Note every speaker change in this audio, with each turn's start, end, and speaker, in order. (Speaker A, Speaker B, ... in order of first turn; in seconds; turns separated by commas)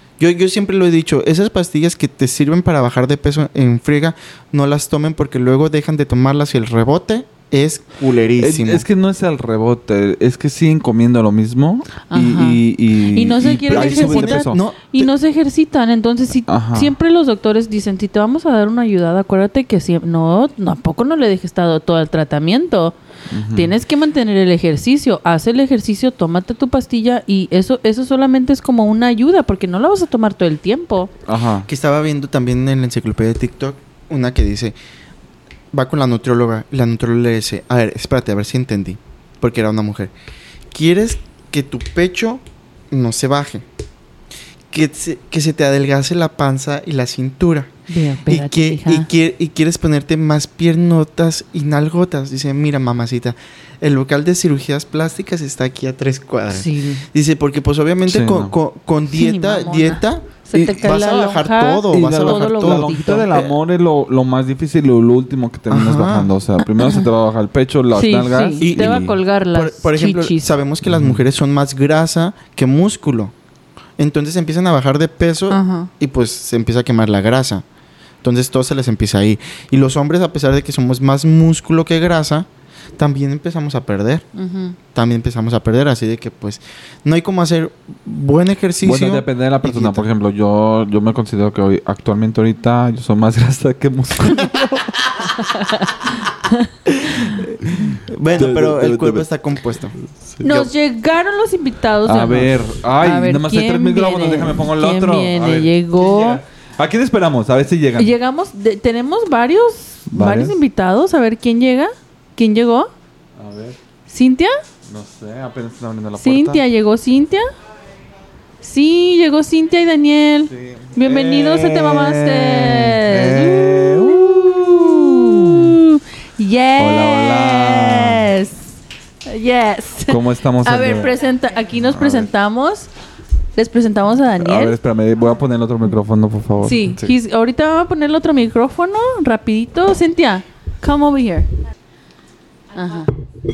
Speaker A: 0.2-8.8, Speaker B: 8.4-14.6, Speaker C: 12.1-22.9, Speaker A: 13.6-15.1, Speaker B: 16.5-16.9, Speaker B: 23.3-23.7, Speaker C: 23.5-31.1, Speaker B: 31.3-31.7, Speaker A: 31.7-34.7, Speaker A: 35.7-40.1, Speaker A: 40.7-43.6, Speaker A: 44.7-47.7, Speaker C: 47.9-49.1, Speaker A: 48.3-63.5, Speaker C: 56.5-57.0, Speaker B: 58.1-58.5, Speaker C: 59.1-63.3, Speaker B: 60.5-60.9, Speaker B: 61.9-69.1, Speaker A: 65.7-66.3, Speaker C: 66.8-67.1, Speaker C: 67.9-70.5, Speaker A: 68.6-73.3, Speaker B: 70.9-71.2, Speaker A: 74.0-77.6, Speaker C: 75.5-75.9, Speaker A: 78.2-82.5, Speaker A: 83.0-84.2, Speaker C: 84.3-84.8, Speaker A: 84.9-90.0, Speaker B: 88.8-94.9, Speaker C: 95.5-96.0, Speaker A: 97.1-99.9, Speaker B: 97.7-99.3, Speaker B: 100.2-100.7, Speaker C: 100.4-106.4, Speaker B: 102.0-108.1, Speaker C: 108.0-112.9, Speaker B: 110.1-110.6, Speaker B: 113.3-113.8, Speaker C: 114.1-114.6, Speaker B: 114.8-116.6, Speaker C: 116.2-117.5, Speaker C: 118.6-128.7, Speaker B: 120.5-125.7, Speaker B: 126.8-128.3, Speaker C: 129.2-132.9, Speaker B: 130.1-131.2, Speaker B: 131.8-132.3, Speaker C: 133.6-134.8, Speaker B: 134.4-137.1, Speaker C: 136.6-141.5, Speaker C: 142.7-143.2